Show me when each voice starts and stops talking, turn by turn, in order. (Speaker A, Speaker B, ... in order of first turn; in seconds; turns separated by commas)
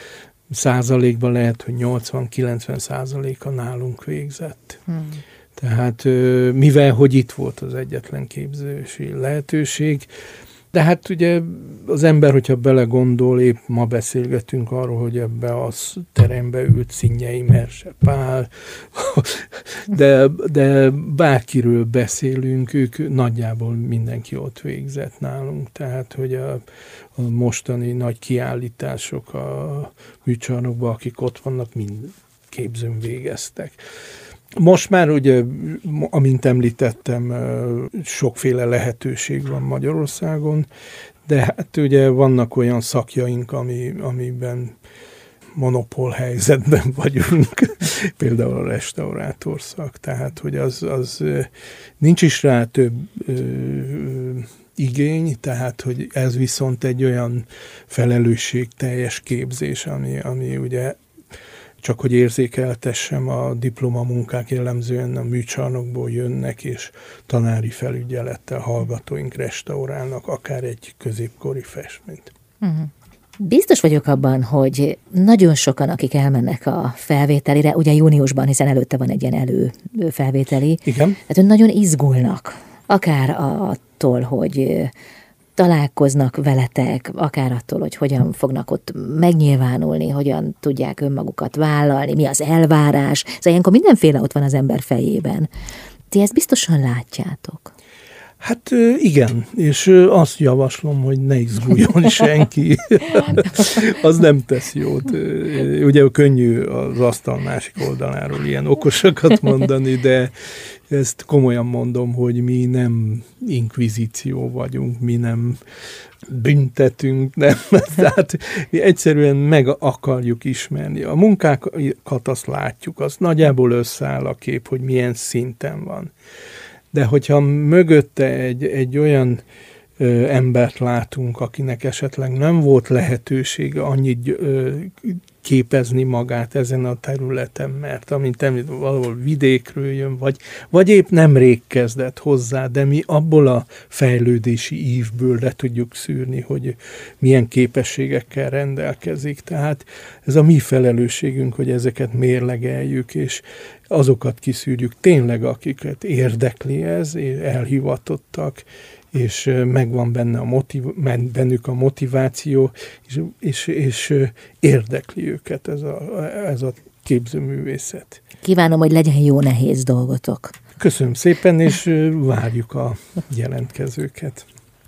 Speaker A: 0.5-4.8, Speaker B: 4.9-5.2, Speaker A: 5.6-10.1, Speaker A: 10.7-26.6, Speaker A: 27.1-33.8, Speaker A: 34.5-40.7, Speaker A: 41.2-44.7, Speaker A: 45.5-61.0, Speaker A: 61.8-72.3, Speaker B: 72.6-84.9, Speaker A: 80.8-81.2, Speaker B: 85.6-95.5, Speaker B: 96.1-97.7, Speaker A: 98.4-110.3, Speaker A: 110.9-115.6, Speaker A: 116.2-126.1, Speaker A: 126.9-129.4, Speaker A: 130.0-168.2, Speaker B: 168.4-170.6, Speaker A: 170.8-174.4